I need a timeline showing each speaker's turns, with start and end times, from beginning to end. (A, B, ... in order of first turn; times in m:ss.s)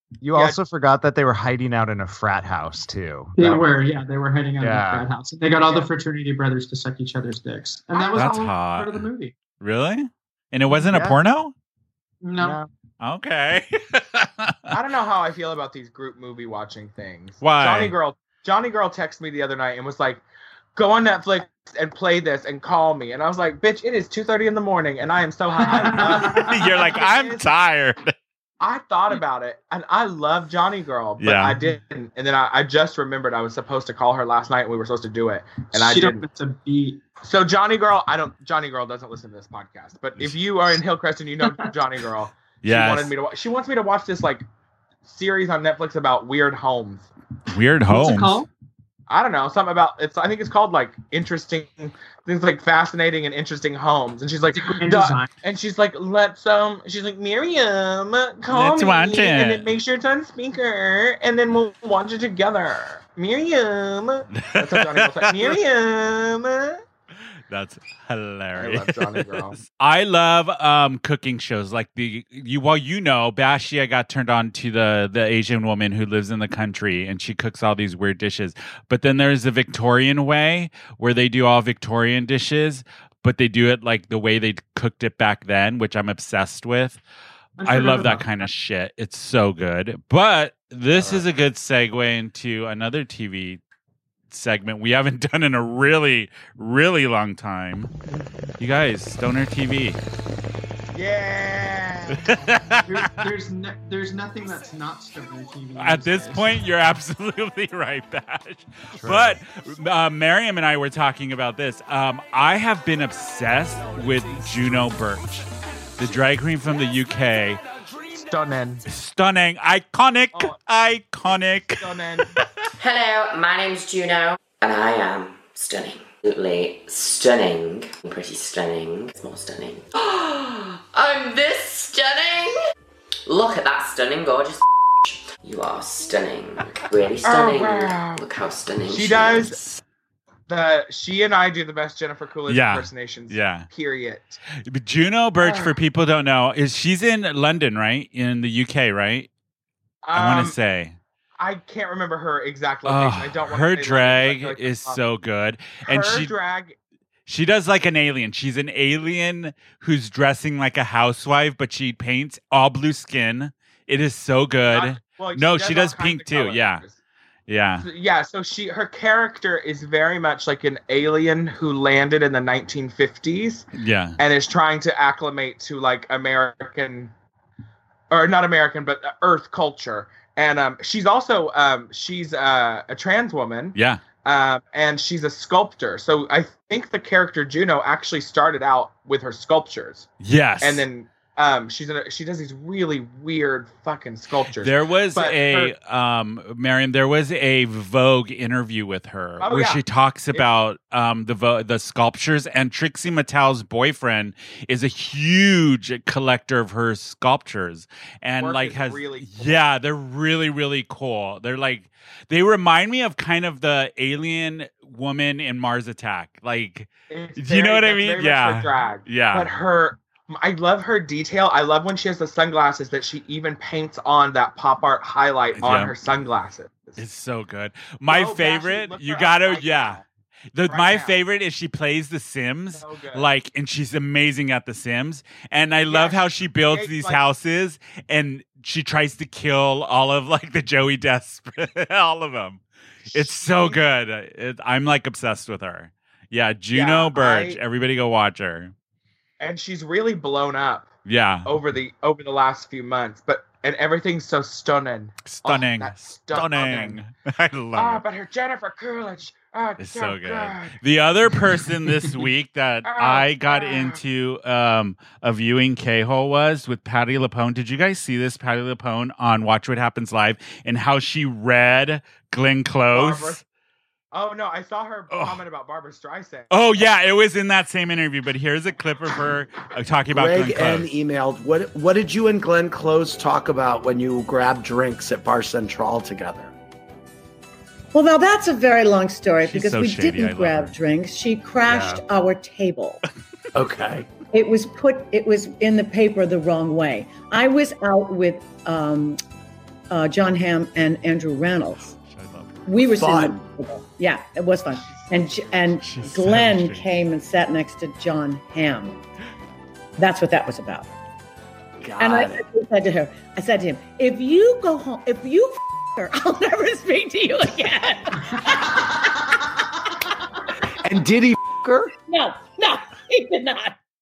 0:00.2-0:03.6 A
0:03.4-0:09.4 B
0:04.6-0:05.1 A
0:07.9-0:08.3 C
0:08.1-0:11.5 D
0:10.8-0:11.2 A
0:12.2-0:12.6 B
0:12.4-0:12.7 A
0:13.0-0:14.7 D
0:14.7-0:20.2 C
0:17.4-0:17.9 D
0:20.7-0:27.4 C
0:25.6-0:26.8 B
0:26.0-0:28.1 D
0:28.6-0:36.2 C
0:31.2-0:31.6 D
0:35.7-0:37.0 B
0:37.2-0:44.4 C
0:41.4-0:41.7 B
0:42.6-0:43.1 D
0:45.0-0:47.1 C
0:47.5-0:48.4 D
0:47.9-0:48.5 B
0:49.1-1:06.8 C
0:54.5-0:55.3 B
0:58.5-0:59.7 D
1:04.4-1:05.6 D
1:07.5-1:27.0 D
1:08.5-1:09.6 C
1:27.6-1:28.4 B
1:27.6-1:33.6 D
1:31.0-1:31.2 C
1:34.3-1:37.9 D
1:38.6-1:40.0 D
1:40.9-1:42.4 C
1:42.1-1:43.3 D
1:42.8-1:46.6 B
1:45.8-1:55.4 D
1:48.9-1:49.4 A
1:53.9-1:54.8 C
1:56.0-1:57.6 D
1:58.1-1:58.8 C
1:58.9-2:02.5 D
2:01.8-2:02.3 C
2:02.8-2:12.6 E
2:13.2-2:19.8 E
2:17.2-2:18.2 C
2:18.8-2:19.6 C
2:20.5-2:24.4 C
2:22.5-2:23.7 D
2:24.6-2:29.3 D
2:25.4-2:25.8 C
2:30.0-2:30.6 C
2:30.1-2:31.0 D
2:31.4-2:35.0 C
2:32.8-2:36.3 D
2:35.8-2:36.8 C
2:37.3-2:46.8 D
2:44.7-2:46.9 C
2:47.5-2:47.9 D
2:47.8-2:53.7 C
2:53.7-2:54.2 D
2:54.2-2:57.1 C
2:58.1-3:10.1 C
3:03.7-3:04.0 D
3:10.2-3:10.8 D
3:10.6-3:15.7 C
3:14.6-3:39.5 D
3:19.4-3:19.8 C
3:28.4-3:29.6 C
3:37.1-3:47.0 C
3:45.6-3:45.9 D
3:47.0-3:50.0 D
3:48.1-3:50.0 C
3:50.5-4:08.7 D
3:50.7-3:51.2 C
3:52.7-3:53.2 C
3:55.9-3:57.2 C
4:03.1-4:03.8 C
4:06.7-4:07.6 C
4:09.4-4:10.9 C
4:11.0-4:11.5 D
4:11.4-4:17.0 C
4:15.2-4:18.0 D
4:17.8-4:20.8 C
4:19.8-4:33.4 D
4:22.8-4:24.0 C
4:32.9-4:33.4 C
4:34.1-4:36.5 C
4:35.1-4:35.4 D
4:36.5-4:40.9 D
4:40.1-4:46.5 F
4:47.9-4:53.0 G
4:49.4-4:50.7 D
4:51.6-4:52.0 A
4:53.5-4:54.1 F
4:54.3-4:59.2 G
4:59.9-5:01.9 G
5:01.9-5:02.6 D
5:02.6-5:09.0 G
5:03.0-5:03.4 F
5:05.8-5:06.9 D
5:10.0-5:10.9 G
5:11.8-5:12.4 F
5:12.0-5:18.9 G
5:18.4-5:19.4 B
5:20.8-5:21.9 F
5:22.0-5:23.8 G